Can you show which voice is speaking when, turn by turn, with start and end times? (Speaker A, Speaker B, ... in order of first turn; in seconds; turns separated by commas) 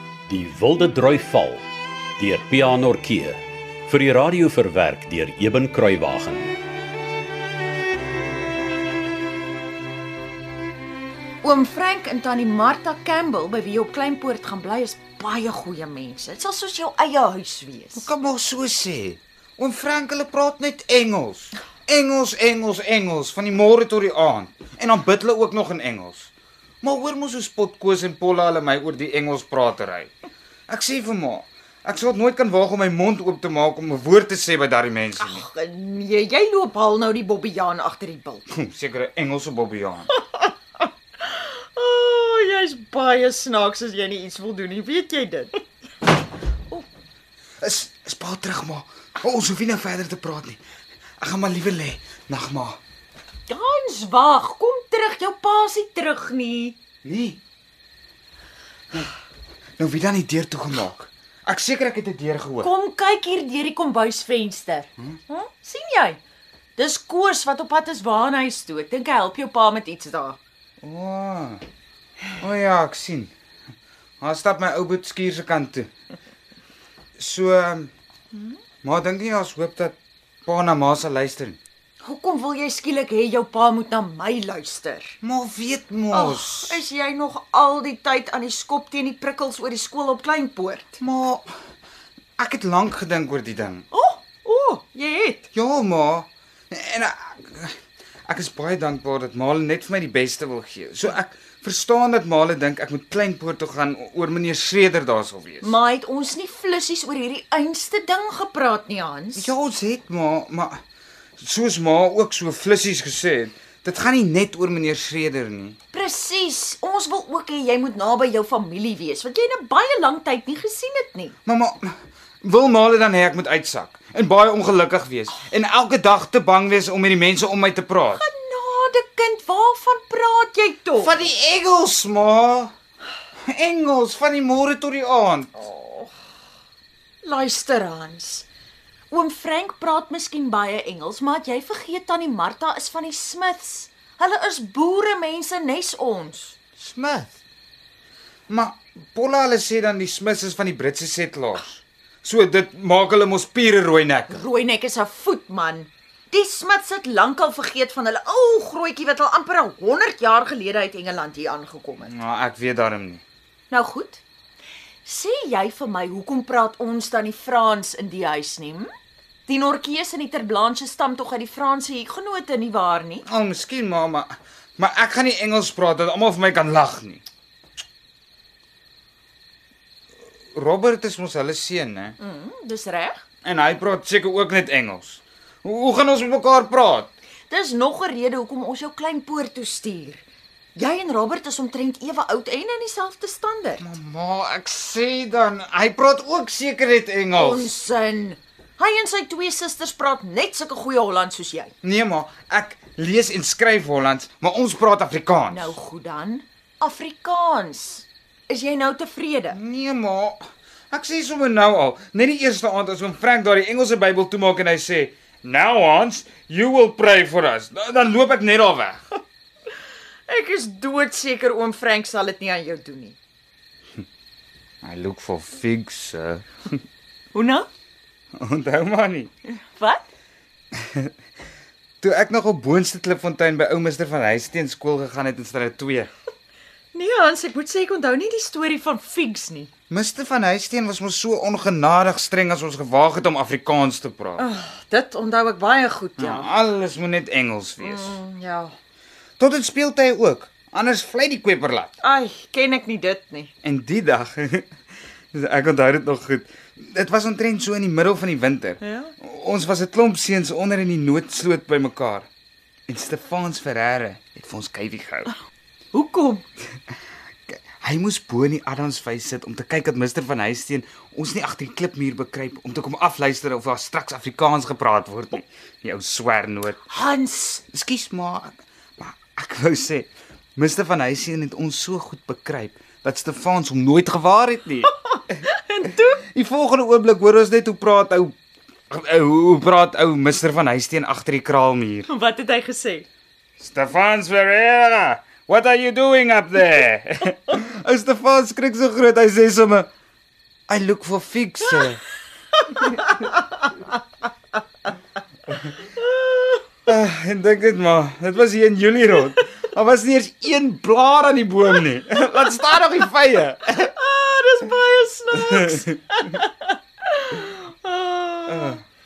Speaker A: 0.3-1.6, Speaker A: 2.2-6.5, Speaker B: 11.4-18.1, Speaker C: 17.9-26.3, Speaker C: 26.8-30.1, Speaker C: 30.7-35.4, Speaker B: 35.2-38.4, Speaker C: 38.5-40.1, Speaker B: 40.2-40.5, Speaker B: 41.2-45.6, Speaker C: 47.6-50.6, Speaker C: 51.2-52.8, Speaker B: 53.5-56.8, Speaker C: 57.0-57.4, Speaker C: 59.8-62.7, Speaker B: 62.6-66.2, Speaker B: 66.8-70.4, Speaker C: 70.8-71.6, Speaker C: 72.4-73.3, Speaker C: 74.2-75.9, Speaker C: 77.2-77.9, Speaker C: 78.8-81.6, Speaker B: 82.0-85.2, Speaker C: 85.2-86.8, Speaker B: 86.1-91.0, Speaker C: 91.0-91.5, Speaker C: 92.4-93.8, Speaker B: 93.9-95.5, Speaker C: 95.5-97.7, Speaker C: 98.3-105.8, Speaker B: 105.6-109.5, Speaker C: 109.3-110.8, Speaker C: 111.4-115.8, Speaker B: 115.9-121.3, Speaker C: 121.4-128.2, Speaker B: 128.1-131.1, Speaker C: 131.0-132.7, Speaker C: 133.5-135.7, Speaker B: 135.6-136.1, Speaker B: 137.2-138.4, Speaker B: 139.1-146.6, Speaker C: 146.8-147.3, Speaker C: 148.5-154.4, Speaker B: 154.3-162.1, Speaker C: 162.0-163.2, Speaker B: 163.7-164.2, Speaker B: 165.0-168.9, Speaker B: 169.4-173.2, Speaker C: 173.2-177.2, Speaker C: 180.5-182.2, Speaker B: 182.2-183.2, Speaker C: 183.4-187.1, Speaker B: 187.5-190.2, Speaker B: 190.7-193.9, Speaker C: 193.8-197.7, Speaker B: 197.3-201.7, Speaker C: 201.8-205.8, Speaker B: 205.5-209.6, Speaker C: 209.5-219.0, Speaker B: 220.3-223.2, Speaker C: 224.8-226.5, Speaker B: 227.3-227.7, Speaker C: 228.4-229.3, Speaker B: 229.5-230.0, Speaker C: 232.0-236.1, Speaker B: 236.9-239.7, Speaker C: 239.9-244.4, Speaker B: 244.4-246.5, Speaker C: 246.2-248.2, Speaker B: 247.8-248.7, Speaker C: 249.4-251.9, Speaker B: 252.0-253.5, Speaker C: 253.6-254.7, Speaker C: 255.3-262.3, Speaker B: 258.8-259.1, Speaker C: 262.9-265.3, Speaker B: 265.9-266.4, Speaker C: 267.5-276.8, Speaker B: 276.9-277.6, Speaker C: 277.7-285.3, Speaker B: 285.6-286.2, Speaker C: 286.2-288.4, Speaker C: 288.9-292.1, Speaker B: 292.1-293.1, Speaker C: 293.6-299.9, Speaker C: 300.7-302.0, Speaker C: 306.9-313.9, Speaker B: 313.9-318.8, Speaker C: 318.5-318.8